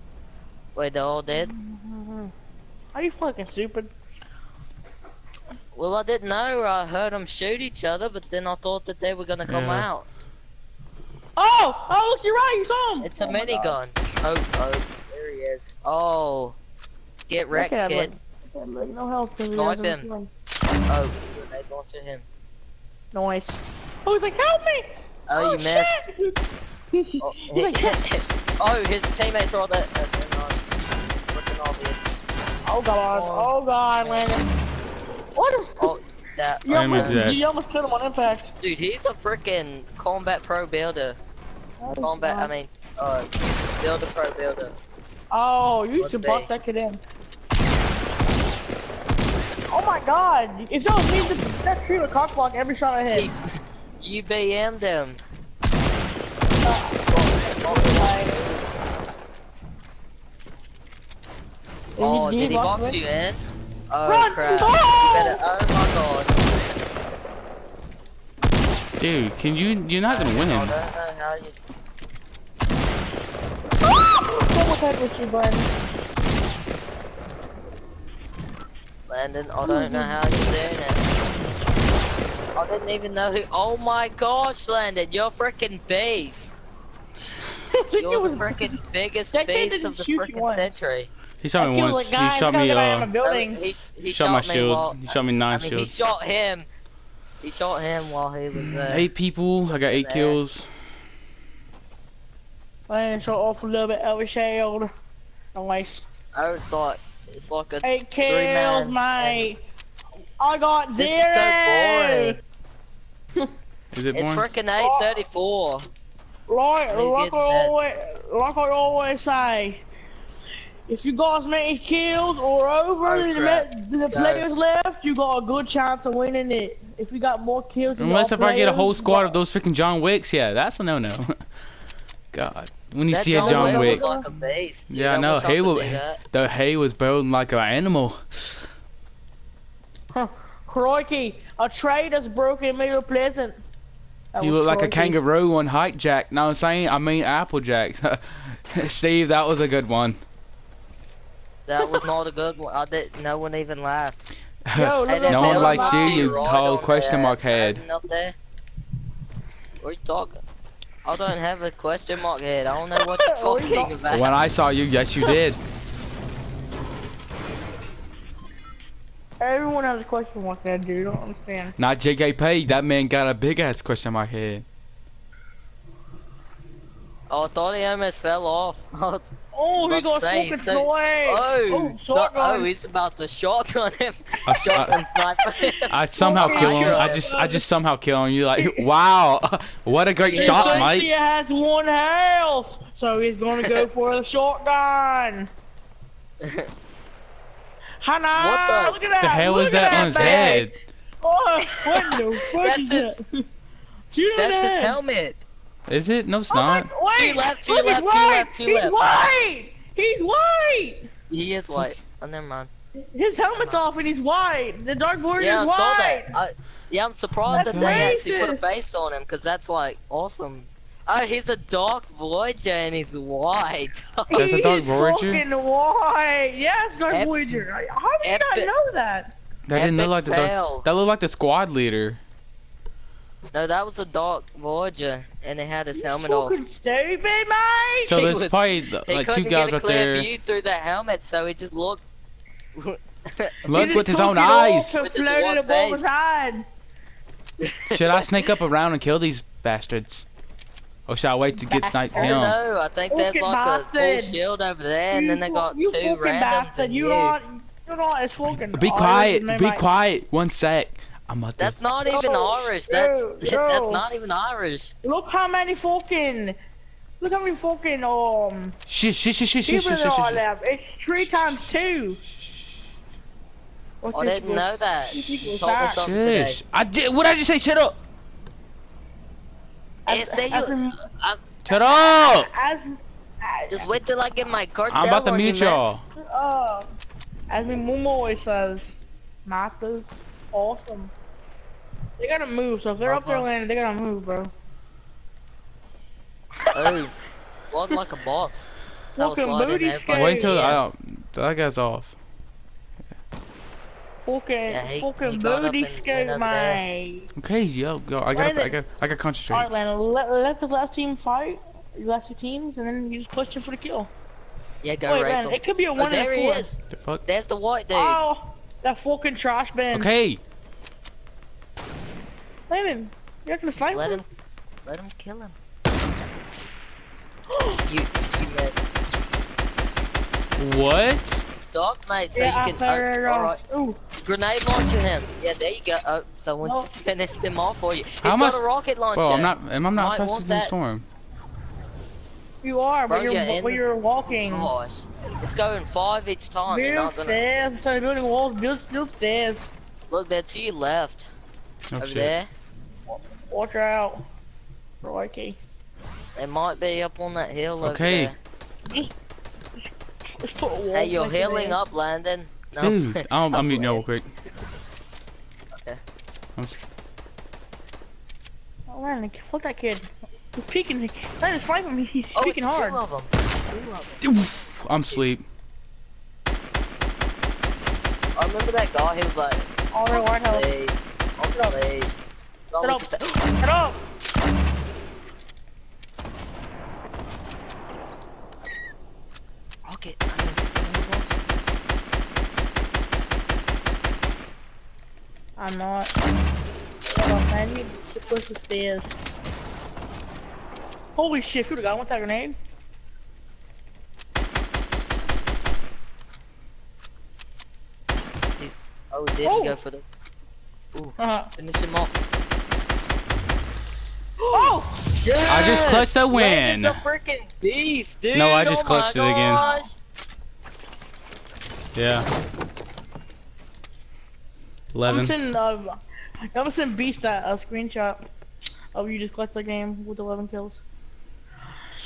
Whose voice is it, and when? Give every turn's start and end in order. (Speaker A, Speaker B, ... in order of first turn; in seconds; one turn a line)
Speaker A: 0.8-1.5
Speaker B: 1.3-2.3
Speaker B: 2.9-3.9
Speaker A: 5.7-10.1
Speaker C: 9.5-9.9
Speaker B: 11.4-13.8
Speaker A: 13.0-16.6
Speaker A: 17.3-18.1
Speaker B: 17.5-20.3
Speaker A: 19.5-20.1
Speaker A: 20.9-22.3
Speaker B: 23.1-26.4
Speaker A: 25.3-26.1
Speaker B: 26.9-28.3
Speaker A: 27.2-32.1
Speaker B: 32.7-34.4
Speaker A: 33.1-34.3
Speaker B: 35.4-36.0
Speaker A: 35.8-37.2
Speaker B: 36.6-38.5
Speaker C: 36.7-37.4
Speaker A: 38.6-41.2
Speaker B: 41.8-42.5
Speaker A: 42.0-44.8
Speaker B: 45.3-47.0
Speaker A: 46.0-46.5
Speaker B: 49.7-53.3
Speaker A: 53.1-53.4
Speaker A: 54.0-55.2
Speaker B: 56.6-58.3
Speaker A: 57.1-58.7
Speaker A: 62.0-66.5
Speaker B: 62.0-63.0
Speaker B: 64.1-65.4
Speaker C: 69.0-70.7
Speaker A: 70.0-71.6
Speaker B: 73.8-75.7
Speaker A: 79.1-81.1
Speaker B: 79.6-80.2
Speaker A: 82.6-86.6
Speaker B: 87.7-88.8
Speaker A: 88.0-91.1
Speaker B: 89.3-90.7
Speaker C: 91.4-93.1
Speaker B: 91.6-93.7
Speaker A: 93.2-96.7
Speaker C: 94.0-95.9
Speaker A: 97.4-99.1
Speaker C: 98.8-100.7
Speaker A: 99.6-100.4
Speaker B: 102.9-104.9
Speaker B: 105.5-106.0
Speaker A: 106.3-109.5
Speaker B: 107.8-109.6
Speaker B: 110.4-112.4
Speaker A: 110.9-112.4
Speaker C: 113.9-114.5
Speaker A: 114.1-115.9
Speaker B: 114.8-115.2
Speaker B: 116.5-119.8
Speaker A: 116.9-117.7
Speaker B: 120.9-129.4
Speaker A: 123.0-124.5
Speaker C: 128.0-131.3
Speaker C: 132.3-134.1
Speaker A: 133.1-136.2
Speaker B: 133.3-134.3
Speaker C: 134.9-138.7
Speaker B: 140.1-143.6
Speaker B: 144.3-145.2
Speaker C: 144.4-150.2
Speaker A: 151.7-154.3
Speaker C: 154.7-157.8
Speaker B: 154.8-156.5
Speaker A: 155.1-158.3
Speaker A: 159.8-160.4
Speaker A: 161.1-164.4
Speaker B: 163.0-163.9
Speaker C: 164.1-165.6
Speaker B: 169.4-171.8
Speaker C: 171.8-174.7
Speaker A: 177.3-187.2
Speaker B: 179.5-182.7
Speaker C: 184.5-185.0
Speaker C: 185.9-191.1
Speaker B: 186.2-187.6
Speaker B: 188.6-188.9
Speaker A: 190.2-190.9
Speaker B: 190.3-195.5
Speaker B: 198.0-200.7
Speaker A: 198.3-199.0
Speaker C: 199.2-200.7
Speaker A: 199.7-200.6
Speaker B: 201.2-203.2
Speaker A: 201.7-203.2
Speaker B: 204.1-205.0
Speaker A: 204.4-205.4
Speaker C: 205.9-206.9
Speaker B: 206.5-211.1
Speaker A: 207.1-209.2
Speaker A: 211.3-212.7
Speaker B: 213.1-216.3
Speaker A: 215.4-224.5
Speaker C: 217.5-218.2
Speaker B: 217.5-218.7
Speaker B: 224.3-229.3
Speaker C: 224.3-225.4
Speaker A: 227.1-227.6
Speaker A: 228.2-228.7
Speaker C: 229.7-232.2
Speaker A: 229.7-230.9
Speaker A: 233.5-236.6
Speaker B: 235.9-238.3
Speaker A: 238.0-242.0
Speaker C: 238.1-240.3
Speaker A: 242.8-244.0
Speaker C: 243.7-245.0
Speaker B: 243.7-246.7
Speaker A: 245.0-246.1
Speaker A: 247.6-248.3
Speaker C: 247.9-250.3
Speaker C: 251.1-252.6
Speaker B: 251.5-252.6
Speaker A: 252.2-257.4
Speaker B: 253.1-254.4
Speaker B: 255.1-259.8
Speaker C: 258.7-261.8
Speaker A: 261.6-264.9
Speaker B: 262.1-264.1
Speaker B: 265.0-266.6
Speaker B: 267.2-268.8
Speaker C: 268.9-270.4
Speaker B: 269.6-272.2
Speaker B: 274.0-276.1
Speaker A: 274.1-276.6
Speaker C: 276.0-278.0
Speaker B: 280.1-280.9
Speaker A: 280.1-282.1
Speaker C: 281.7-282.5
Speaker B: 282.1-284.0
Speaker A: 283.7-285.8
Speaker C: 284.9-286.0
Speaker B: 286.2-286.9
Speaker B: 287.5-291.1
Speaker B: 292.2-294.5
Speaker A: 293.0-293.5
Speaker A: 296.7-300.9
Speaker B: 299.1-300.7
Speaker C: 300.1-302.2
Speaker B: 304.3-307.3
Speaker A: 304.7-306.8
Speaker C: 307.4-309.7
Speaker B: 308.3-308.8
Speaker B: 309.5-314.1
Speaker A: 314.8-318.2
Speaker B: 315.1-316.7
Speaker C: 316.9-317.2
Speaker B: 317.9-320.1
Speaker C: 319.9-320.4
Speaker B: 322.7-324.2
Speaker A: 323.7-324.2
Speaker A: 324.9-325.6
Speaker B: 327.5-327.8
Speaker A: 327.8-328.9
Speaker C: 330.6-331.4
Speaker A: 331.7-333.6
Speaker B: 332.3-334.0
Speaker A: 334.2-340.7
Speaker B: 336.6-336.9
Speaker C: 338.2-341.1
Speaker B: 342.6-344.7
Speaker A: 343.1-347.4
Speaker B: 346.7-349.7
Speaker A: 350.1-351.3
Speaker C: 351.9-352.4
Speaker A: 352.0-352.5
Speaker B: 353.1-354.3
Speaker B: 355.0-355.6
Speaker A: 356.4-358.4
Speaker C: 357.8-358.3
Speaker B: 360.4-361.8
Speaker A: 360.9-364.0
Speaker C: 362.8-364.3
Speaker C: 366.6-366.8
Speaker B: 368.9-373.0
Speaker A: 372.4-374.2
Speaker C: 374.2-375.4
Speaker A: 378.4-382.1
Speaker B: 379.9-380.7
Speaker A: 382.7-383.6
Speaker B: 382.8-383.1
Speaker B: 383.6-384.0
Speaker A: 389.9-391.6
Speaker B: 395.6-396.1
Speaker B: 397.1-399.1
Speaker B: 401.2-402.6
Speaker A: 408.6-410.0
Speaker B: 409.4-409.8
Speaker A: 410.9-412.2
Speaker B: 411.2-411.5
Speaker B: 414.5-415.0
Speaker A: 414.5-419.9
Speaker C: 415.5-417.0
Speaker C: 418.3-419.6
Speaker B: 419.5-419.9
Speaker C: 421.9-422.3
Speaker C: 424.9-425.3
Speaker B: 425.1-426.0
Speaker B: 426.5-428.2
Speaker B: 428.9-430.8